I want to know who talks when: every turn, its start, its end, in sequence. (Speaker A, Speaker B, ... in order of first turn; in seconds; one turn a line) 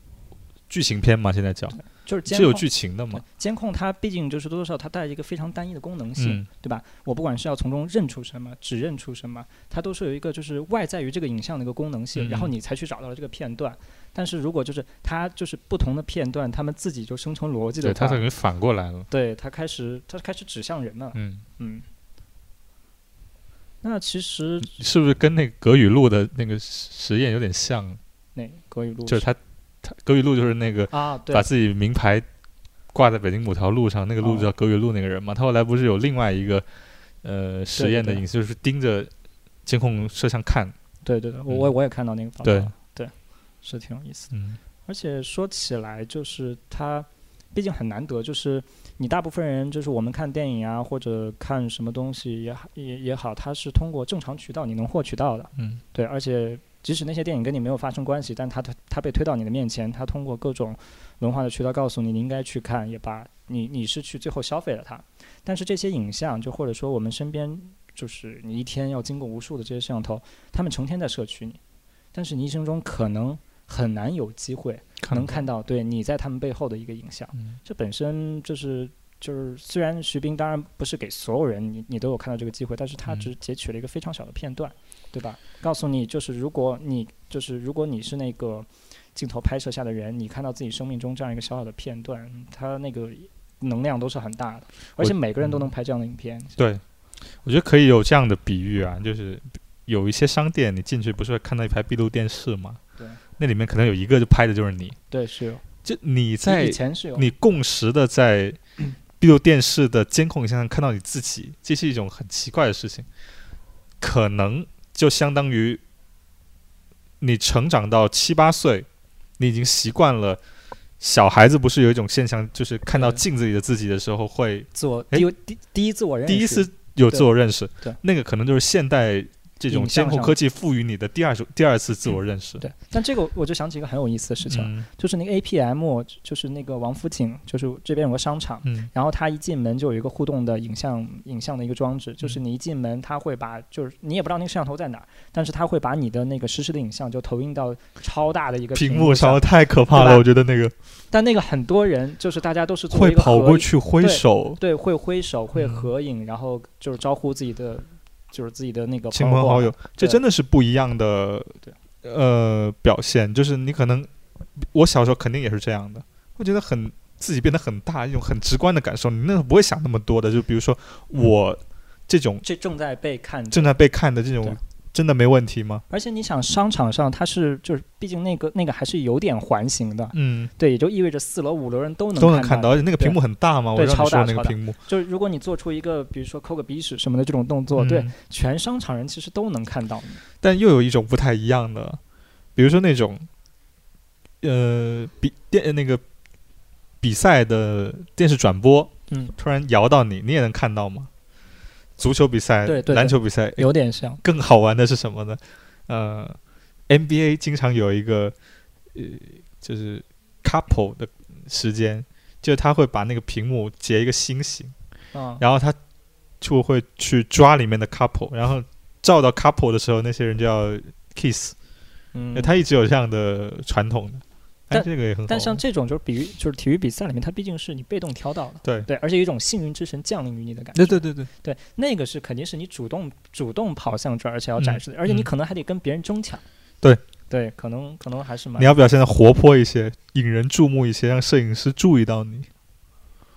Speaker A: 0.7-3.2
Speaker B: 1.8-18.2
Speaker A: 6.2-6.5
Speaker A: 12.2-12.5
Speaker A: 17.8-19.1
Speaker B: 19.1-21.9
Speaker A: 21.1-21.4
Speaker B: 23.8-24.8
Speaker A: 24.6-28.0
Speaker B: 28.4-29.3
Speaker A: 29.1-32.3
Speaker B: 30.9-31.5
Speaker A: 32.9-36.7
Speaker B: 34.2-34.5
Speaker A: 37.2-39.1
Speaker B: 37.8-38.2
Speaker A: 39.7-40.8
Speaker B: 41.0-44.3
Speaker A: 42.4-42.7
Speaker A: 44.3-44.6
Speaker B: 44.9-71.6
Speaker A: 55.6-55.8
Speaker B: 72.1-96.6
Speaker A: 75.0-75.4
Speaker A: 95.0-95.7
Speaker A: 96.6-96.8
Speaker A: 97.4-102.8
Speaker A: 103.4-105.0
Speaker B: 105.1-105.6
Speaker A: 105.8-108.6
Speaker B: 106.4-107.3
Speaker A: 109.2-113.1
Speaker A: 114.0-115.8
Speaker A: 117.2-118.9
Speaker A: 119.4-120.4
Speaker A: 121.0-125.3
Speaker B: 122.9-123.2
Speaker B: 124.7-127.3
Speaker A: 126.3-132.6
Speaker B: 129.7-130.4
Speaker B: 132.6-150.2
Speaker A: 134.5-134.9
Speaker A: 148.8-150.7
Speaker B: 151.1-160.2
Speaker A: 152.9-154.6
Speaker A: 155.6-155.9
Speaker A: 159.1-172.4
Speaker B: 172.4-173.8
Speaker A: 173.5-175.8
Speaker B: 175.9-183.2
Speaker A: 180.1-180.5
Speaker A: 182.2-184.8
Speaker B: 183.7-190.2
Speaker A: 187.8-188.1
Speaker A: 190.4-192.0
Speaker A: 192.6-193.3
Speaker A: 194.4-196.0
Speaker A: 197.0-201.1
Speaker A: 202.0-203.7
Speaker B: 202.7-204.2
Speaker A: 204.2-206.4
Speaker A: 206.9-208.3
Speaker A: 208.9-214.7
Speaker B: 215.1-215.4
Speaker A: 215.4-215.8
Speaker A: 216.4-221.6
Speaker B: 222.1-222.5
Speaker A: 222.3-225.6
Speaker B: 224.7-236.4
Speaker A: 230.8-231.3
Speaker A: 234.6-235.3
Speaker B: 237.3-238.8
Speaker A: 238.6-242.5